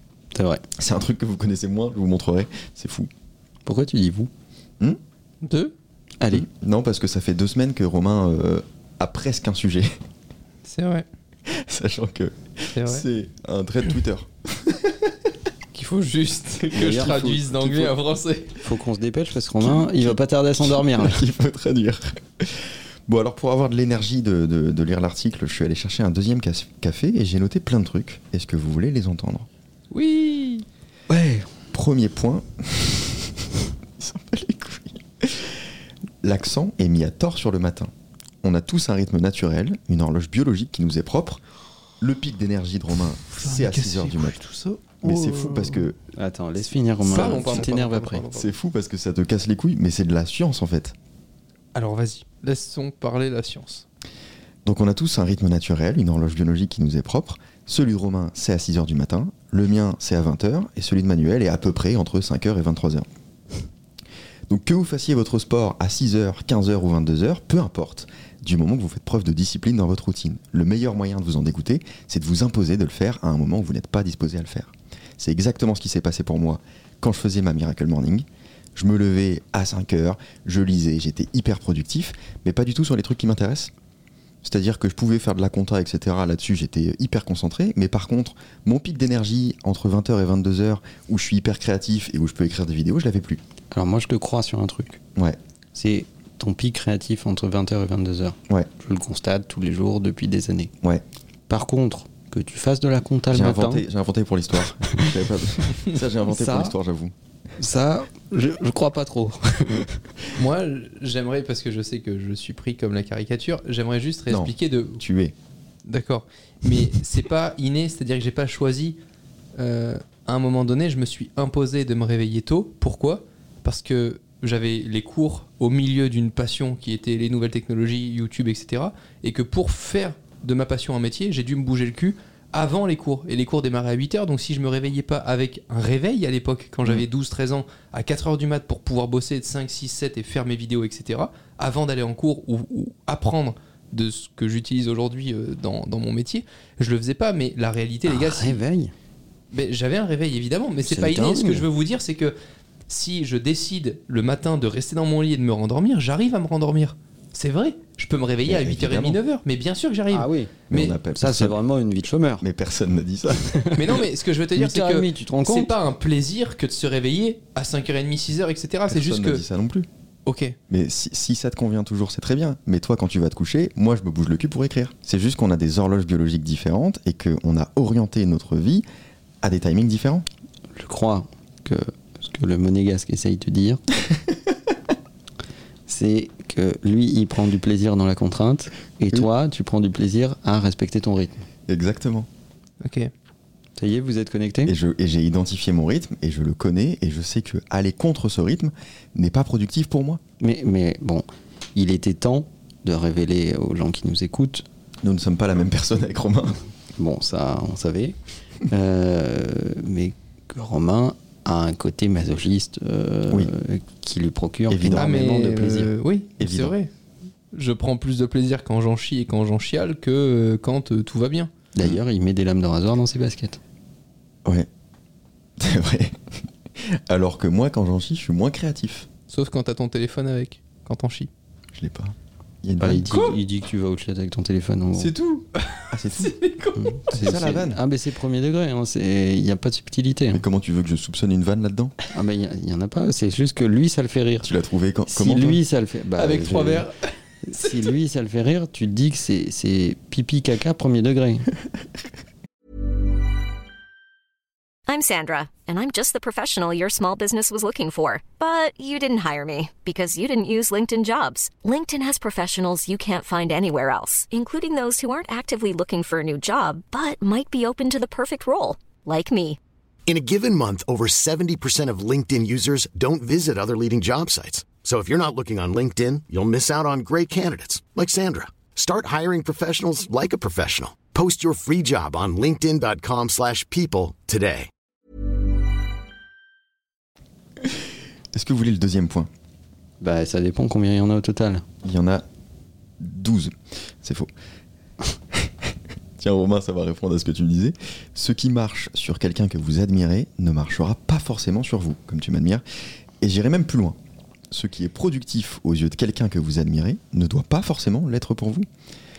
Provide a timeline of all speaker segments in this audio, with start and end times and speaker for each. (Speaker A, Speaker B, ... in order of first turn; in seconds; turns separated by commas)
Speaker A: 0.3-0.6, Speaker B: 0.8-3.1, Speaker A: 3.6-4.3, Speaker C: 5.4-5.7, Speaker A: 6.2-6.5, Speaker B: 6.3-10.0, Speaker C: 10.7-11.1, Speaker B: 11.5-15.3, Speaker C: 12.7-13.1, Speaker C: 15.7-18.6, Speaker A: 16.7-17.6, Speaker B: 16.9-17.9, Speaker A: 18.6-21.2, Speaker B: 19.6-29.5, Speaker C: 29.9-30.6, Speaker A: 31.1-31.4, Speaker B: 31.5-35.6, Speaker B: 36.2-37.9, Speaker B: 38.4-41.4, Speaker B: 42.0-44.4, Speaker C: 43.3-45.9, Speaker B: 45.0-46.0, Speaker A: 46.1-48.3, Speaker C: 47.0-48.5, Speaker B: 47.1-47.7, Speaker B: 48.3-51.0, Speaker C: 51.7-53.8, Speaker B: 54.6-63.1, Speaker B: 64.5-83.7, Speaker B: 84.4-93.4, Speaker A: 93.7-95.0, Speaker A: 95.7-100.7, Speaker A: 101.5-103.8, Speaker B: 103.3-107.1, Speaker A: 106.3-106.7, Speaker A: 107.6-109.9, Speaker C: 110.3-115.0, Speaker B: 114.3-115.3, Speaker C: 115.9-119.0, Speaker C: 119.6-148.6, Speaker A: 148.1-148.9, Speaker C: 149.5-152.3, Speaker A: 150.8-151.7, Speaker C: 152.9-160.9, Speaker B: 158.4-159.2, Speaker A: 160.1-160.5, Speaker B: 160.7-161.6, Speaker A: 161.1-162.4, Speaker B: 162.4-163.6, Speaker A: 163.5-163.8, Speaker C: 163.7-169.4, Speaker A: 164.6-165.7, Speaker B: 168.9-169.9, Speaker C: 170.2-170.6, Speaker B: 170.7-178.8, Speaker B: 179.4-180.2, Speaker A: 180.7-183.8, Speaker A: 185.9-191.4, Speaker B: 191.7-192.3, Speaker C: 192.8-193.1, Speaker A: 193.8-194.7, Speaker B: 194.7-200.2, Speaker A: 200.4-204.6, Speaker B: 205.0-206.6, Speaker A: 207.0-208.2, Speaker A: 208.7-215.9, Speaker B: 214.7-215.1, Speaker C: 214.9-216.9, Speaker B: 216.4-216.7, Speaker C: 217.5-221.5, Speaker A: 221.7-223.6, Speaker B: 225.6-229.1, Speaker C: 229.3-231.3, Speaker B: 231.7-233.3, Speaker A: 232.8-235.1, Speaker C: 233.0-233.3, Speaker C: 234.9-237.0, Speaker B: 235.9-236.4, Speaker A: 236.8-240.4, Speaker B: 237.1-237.8, Speaker B: 240.3-241.9, Speaker A: 242.1-244.5, Speaker B: 244.4-245.6, Speaker A: 245.1-246.8, Speaker C: 246.2-246.9, Speaker A: 247.5-251.5, Speaker C: 247.6-247.9, Speaker D: 254.9-269.6, Speaker E: 270.1-284.7, Speaker B: 288.3-289.3, Speaker A: 290.0-291.6, Speaker B: 291.8-292.2, Speaker B: 293.0-294.3, Speaker B: 295.3-302.6, Speaker B: 303.2-304.0, Speaker B: 304.5-308.6